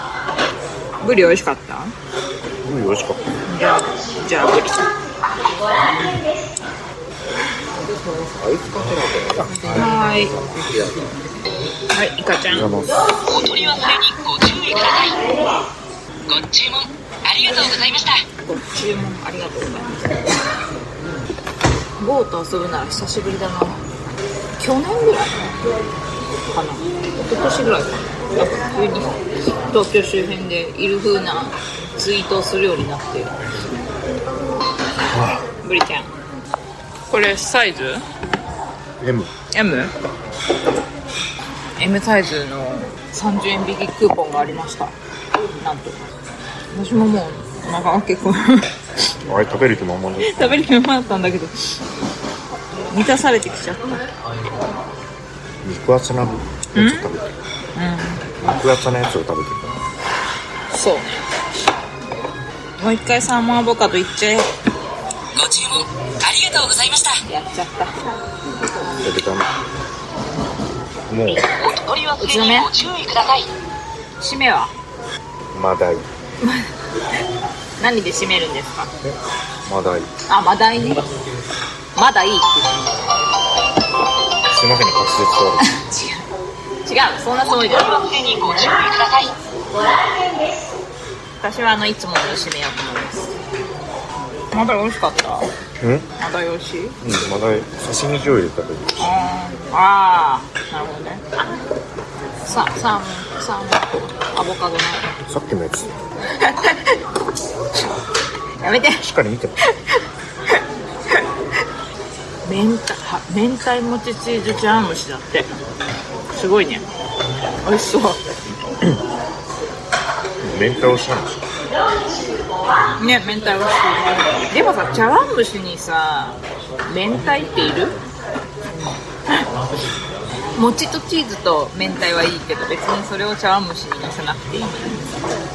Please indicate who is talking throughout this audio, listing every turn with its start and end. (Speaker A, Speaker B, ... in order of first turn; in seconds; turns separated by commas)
Speaker A: 1.0-1.9, Speaker B: 2.6-3.4, Speaker A: 3.5-4.9, Speaker B: 8.1-10.9, Speaker A: 9.7-10.4, Speaker A: 11.9-12.7, Speaker B: 12.5-13.1, Speaker C: 13.2-15.3, Speaker C: 16.3-18.2, Speaker A: 18.4-20.1, Speaker A: 22.0-23.8, Speaker A: 24.6-25.5, Speaker A: 26.5-33.4, Speaker B: 35.1-35.4, Speaker A: 35.6-36.1, Speaker A: 37.1-38.0, Speaker B: 39.0-39.3, Speaker A: 39.5-39.9, Speaker A: 41.8-44.9, Speaker A: 45.5-46.0, Speaker A: 46.7-48.7, Speaker B: 49.2-50.6, Speaker A: 50.2-51.8, Speaker A: 52.9-54.0, Speaker B: 55.6-57.3, Speaker A: 56.7-57.1, Speaker A: 57.8-58.2, Speaker B: 58.4-59.8, Speaker A: 60.7-61.1, Speaker A: 62.8-64.5, Speaker C: 65.3-67.2, Speaker A: 67.3-67.9, Speaker B: 69.0-69.5, Speaker B: 71.1-71.5, Speaker C: 71.6-73.5, Speaker A: 72.2-72.7, Speaker A: 74.2-74.7, Speaker B: 75.5-76.1, Speaker A: 76.4-76.7, Speaker A: 77.8-78.9, Speaker B: 79.0-80.1, Speaker A: 80.3-81.1, Speaker A: 81.9-83.0, Speaker B: 84.5-85.7, Speaker A: 85.6-86.3, Speaker A: 86.8-88.2, Speaker C: 87.7-89.3, Speaker A: 91.4-93.3, Speaker A: 94.5-95.5, Speaker B: 95.8-96.1, Speaker A: 96.2-97.0, Speaker B: 97.0-99.0, Speaker A: 99.0-101.3, Speaker A: 102.4-105.1, Speaker B: 105.2-105.9, Speaker A: 106.3-107.0, Speaker A: 108.6-109.0, Speaker B: 109.0-109.6, Speaker A: 109.7-110.6, Speaker A: 112.4-115.5, Speaker A: 116.3-116.8, Speaker A: 117.6-118.2, Speaker B: 120.4-121.4, Speaker A: 123.0-128.0, Speaker A: 128.7-129.4, Speaker A: 130.5-135.1